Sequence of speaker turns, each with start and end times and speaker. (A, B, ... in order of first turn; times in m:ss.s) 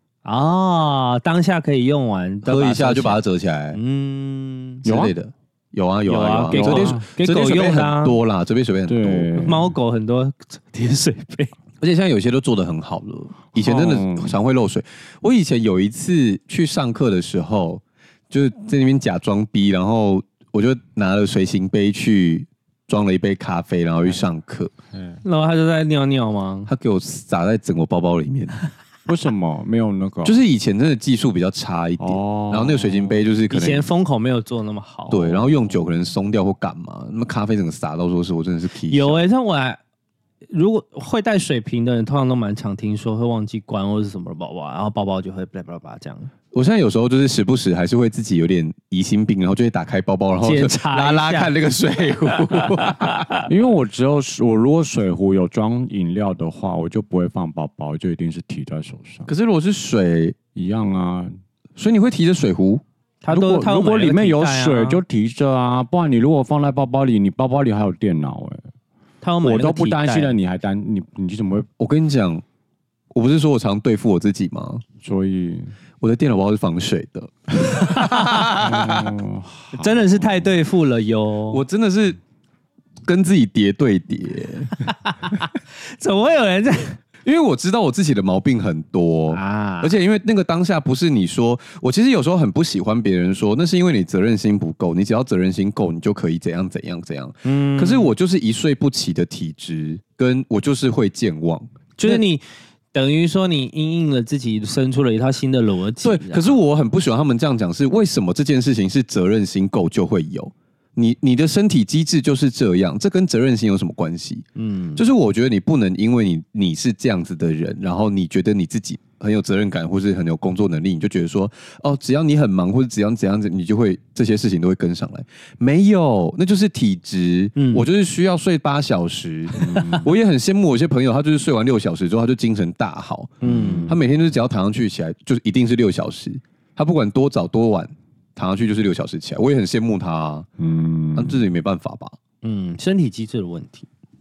0:00.2-0:03.2 A
0:02.4-0:03.8 B
0:03.7-0:04.8 A
0:04.8-0:09.4 B
0:04.8-0:05.1 C
0:06.1-0:08.2 A
0:06.5-0:07.0 C
0:08.9-0:09.7 C
0:09.4-0:11.5 A
0:11.8-0:24.7 B
0:13.6-0:14.4 C
0:24.9-0:25.2 C
0:25.2-0:26.7 A
0:26.7-0:28.6 B
0:29.0-0:30.4 C
0:30.2-0:33.9 B
0:32.0-0:33.2 C
0:33.5-0:35.5 A
0:35.1-0:39.2 B
0:38.9-0:39.8 A
0:40.5-0:46.3 A
0:46.5-0:53.3 B
0:50.4-0:51.5 A
0:52.6-0:53.4 A
0:53.5-0:59.3 C
0:59.3-1:00.4 B
1:00.5-1:01.3 C
1:01.8-1:02.8 B
1:03.2-1:05.0 A
1:03.3-1:08.7 C
1:09.2-1:10.4 A
1:09.4-1:11.7 C
1:11.8-1:12.4 B
1:13.1-1:14.8 B
1:15.0-1:15.7 C
1:16.0-1:19.1 B
1:17.7-1:18.4 A
1:18.5-1:20.5 C
1:19.8-1:21.6 A
1:21.5-1:22.2 B
1:23.0-1:24.9 B
1:24.8-1:27.0 A
1:27.2-1:42.2 B
1:29.3-1:29.9 A
1:37.4-1:38.1 A
1:42.0-1:46.6 A
1:46.0-2:13.3 B
1:54.6-1:55.0 A
2:07.6-2:07.8 A
2:09.6-2:10.1 C
2:13.4-2:13.9 C
2:13.4-2:14.0 A
2:13.8-2:20.5 B
2:20.6-2:21.4 C
2:21.1-2:22.1 B
2:22.4-2:23.9 A